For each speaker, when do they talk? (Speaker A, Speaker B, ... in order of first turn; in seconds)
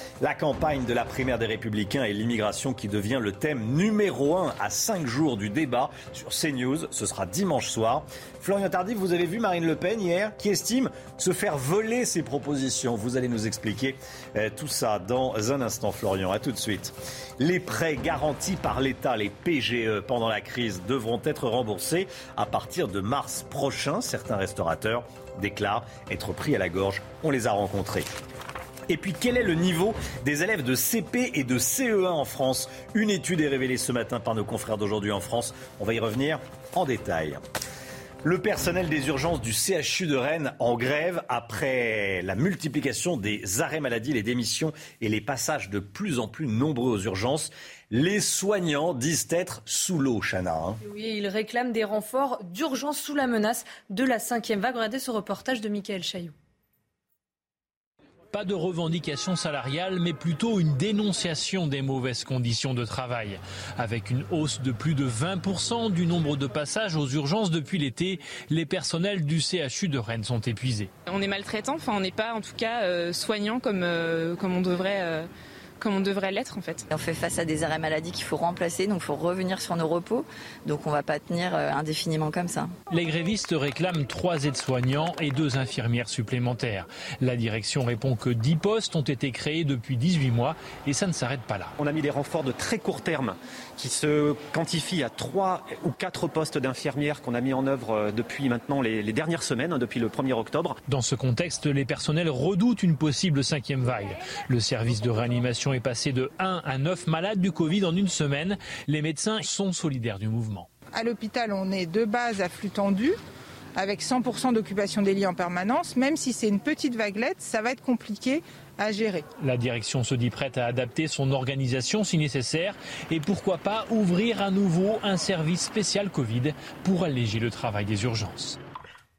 Speaker A: 0.2-28.1, 28.9-37.4, 38.2-50.8
Speaker B: 50.8-56.3
Speaker C: 58.3-70.9, 82.9-91.7, 100.9-110.7, 119.4-128.6
Speaker D: 71.1-75.3, 75.8-76.9
Speaker E: 76.9-82.7
Speaker F: 91.8-100.8
Speaker G: 110.9-113.2, 113.8-119.3